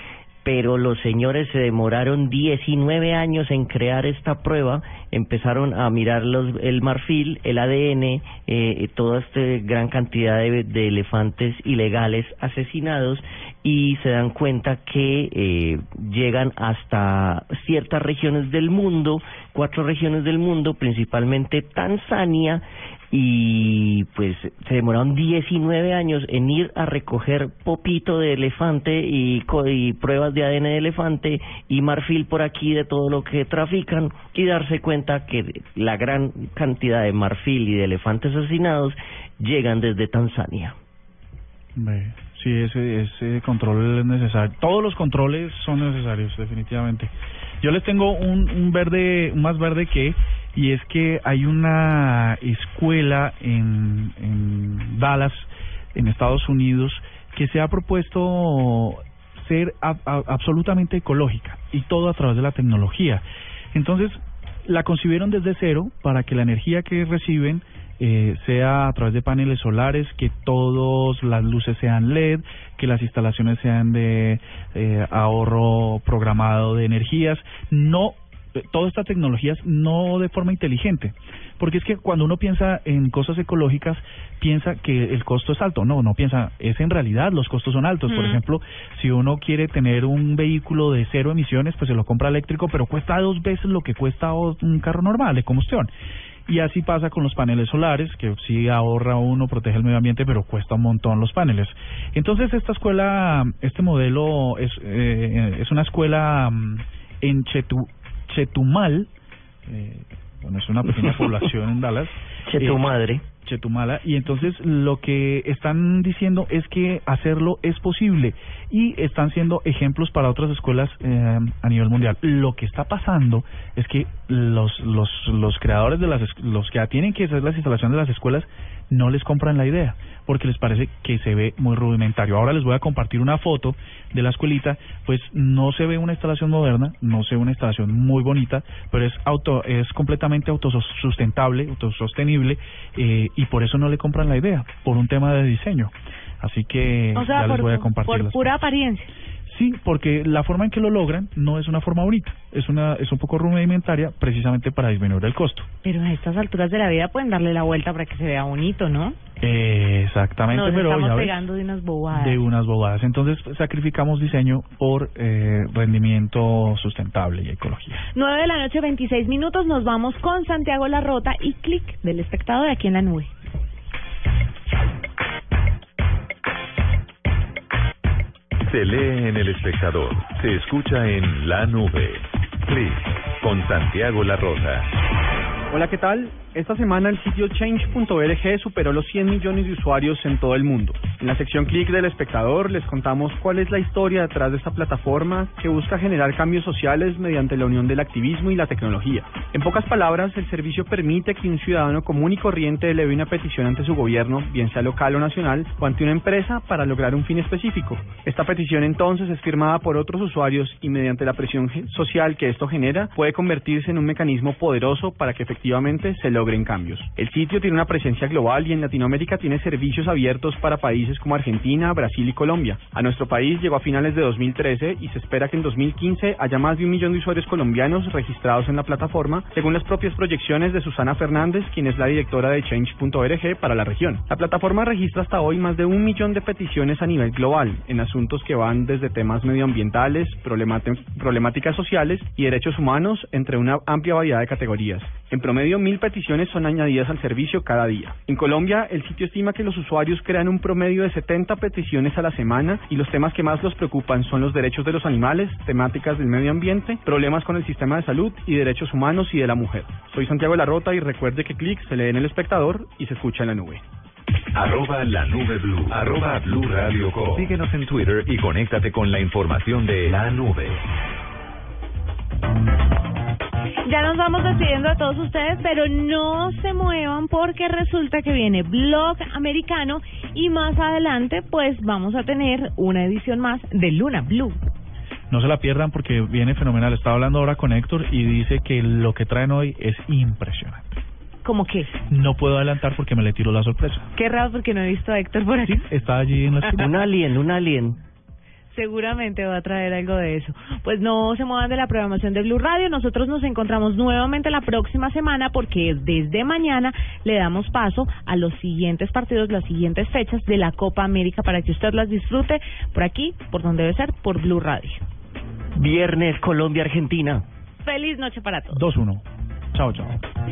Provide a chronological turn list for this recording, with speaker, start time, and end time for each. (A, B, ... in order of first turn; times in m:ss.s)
0:00.4-0:40.8 A
0:41.8-1:35.9 B
1:28.1-1:28.4 C
1:36.5-1:49.1 B
1:49.7-1:52.8 B
1:52.5-1:53.2 A
1:53.4-2:28.5 B
2:27.1-2:29.1 C
2:29.5-2:35.7 B
2:35.8-2:39.2 C
2:39.4-2:41.5 B
2:40.5-2:42.4 C
2:42.1-2:48.0 B
2:48.2-2:53.3 C
2:58.7-3:04.9 D
3:05.7-4:23.8 E
4:24.5-4:30.8 D
4:33.8-4:44.6 C
4:45.3-4:51.0 B
4:51.4-4:51.9 C
4:52.1-4:54.1 B
4:54.2-4:55.8 C
4:55.6-4:56.9 B
4:56.7-4:58.0 A
4:58.7-5:15.0 C
5:15.7-5:17.5 A
5:17.8-5:18.8 C
5:18.7-5:20.2 B